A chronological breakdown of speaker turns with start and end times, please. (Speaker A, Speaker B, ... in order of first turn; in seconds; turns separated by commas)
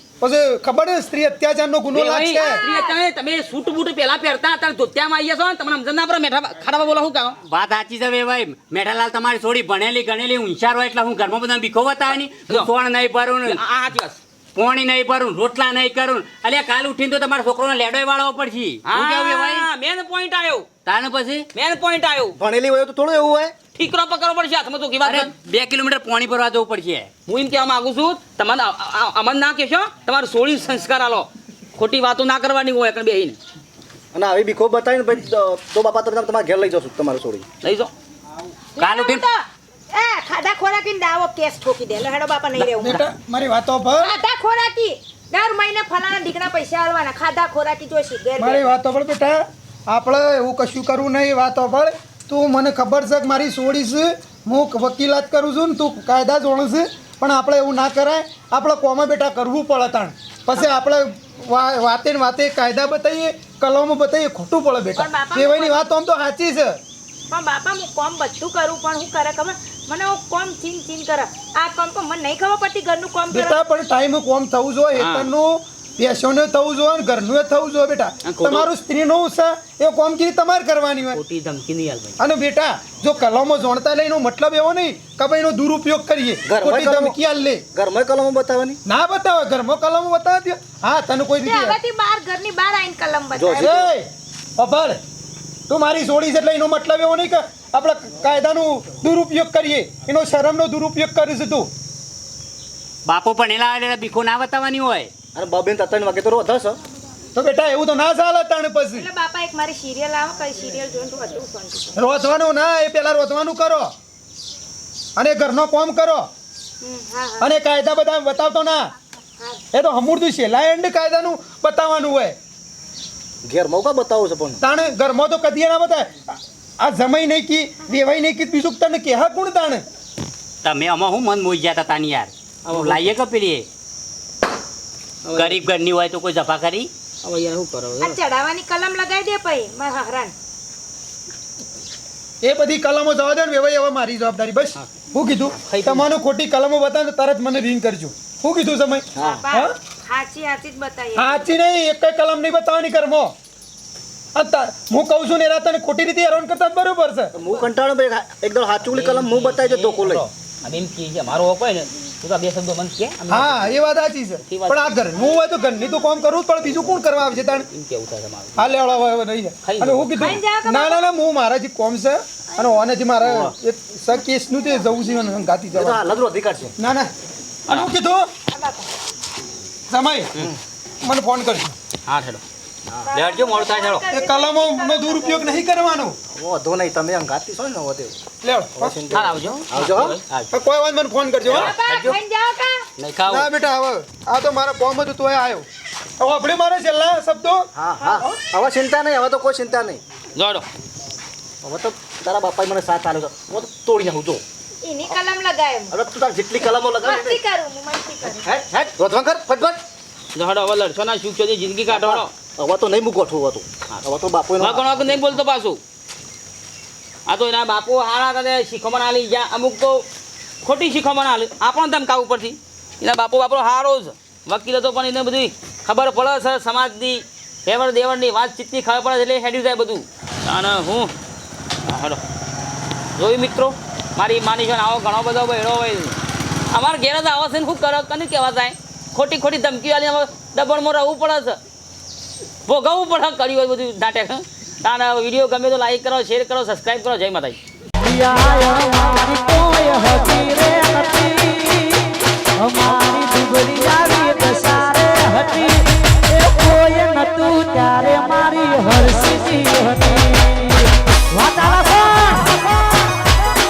Speaker A: 0.2-2.6, Speaker B: 1.9-7.4, Speaker C: 2.4-3.0, Speaker D: 7.4-13.6, Speaker B: 13.4-14.2, Speaker D: 14.6-19.7, Speaker B: 18.9-20.7, Speaker D: 20.9-21.5, Speaker B: 21.5-22.4, Speaker E: 22.4-23.6, Speaker B: 23.8-25.3, Speaker D: 25.0-27.1, Speaker B: 27.3-33.4, Speaker E: 34.1-37.5, Speaker B: 37.6-37.9, Speaker C: 38.8-43.0, Speaker D: 38.8-39.2, Speaker A: 42.6-44.1, Speaker C: 44.0-48.7, Speaker A: 48.4-66.8, Speaker C: 65.0-65.8, Speaker C: 67.3-73.6, Speaker A: 73.3-81.2, Speaker B: 75.0-75.3, Speaker B: 78.2-78.7, Speaker B: 81.1-82.2, Speaker A: 82.2-87.6, Speaker E: 86.5-87.2, Speaker E: 87.7-88.8, Speaker A: 88.9-91.8, Speaker C: 91.4-93.8, Speaker E: 93.3-93.9, Speaker A: 93.6-95.0, Speaker A: 95.7-101.7, Speaker D: 103.1-105.1, Speaker E: 105.3-106.8, Speaker A: 107.3-109.1, Speaker C: 108.9-112.0, Speaker A: 112.0-113.9, Speaker A: 115.2-116.3, Speaker C: 116.8-117.5, Speaker A: 117.4-118.9, Speaker A: 119.7-122.4, Speaker E: 123.5-124.6, Speaker A: 124.6-129.8, Speaker D: 130.6-133.7, Speaker B: 132.7-133.0, Speaker B: 135.2-135.6, Speaker D: 135.3-136.9, Speaker B: 137.2-138.2, Speaker C: 138.0-140.3, Speaker A: 142.4-149.7, Speaker B: 145.7-146.1, Speaker E: 149.2-149.4, Speaker C: 149.2-151.5, Speaker A: 151.2-153.3, Speaker A: 154.3-157.3, Speaker E: 157.3-160.3, Speaker B: 158.8-163.8, Speaker A: 163.3-167.7, Speaker B: 164.5-165.0, Speaker B: 167.5-168.7, Speaker A: 168.6-176.0, Speaker B: 169.6-170.4, Speaker C: 170.2-171.1, Speaker E: 175.7-176.8, Speaker A: 176.8-177.1, Speaker A: 177.7-178.3, Speaker C: 178.5-178.9, Speaker A: 179.9-180.4, Speaker A: 181.0-181.8, Speaker B: 182.1-182.4, Speaker C: 183.1-185.6, Speaker D: 183.1-184.0, Speaker A: 184.1-186.2, Speaker E: 186.3-188.2, Speaker A: 188.4-189.0, Speaker E: 188.8-190.4, Speaker B: 189.1-190.2, Speaker A: 190.5-191.7, Speaker C: 191.5-192.9, Speaker D: 191.6-192.2, Speaker D: 193.0-193.5, Speaker A: 193.3-195.7, Speaker A: 196.2-197.7, Speaker E: 197.8-200.0, Speaker C: 198.0-198.3, Speaker B: 200.4-200.7, Speaker E: 201.6-204.4, Speaker C: 204.8-205.9, Speaker E: 205.9-207.4, Speaker C: 207.0-208.5, Speaker E: 208.4-209.8, Speaker B: 210.3-212.3, Speaker E: 211.9-215.1, Speaker B: 214.6-215.8, Speaker B: 217.3-220.1, Speaker B: 220.6-231.1, Speaker B: 231.8-232.2, Speaker B: 233.2-236.2, Speaker B: 236.7-241.6, Speaker B: 242.7-247.6, Speaker F: 248.0-251.9, Speaker F: 252.6-260.7, Speaker F: 261.3-262.6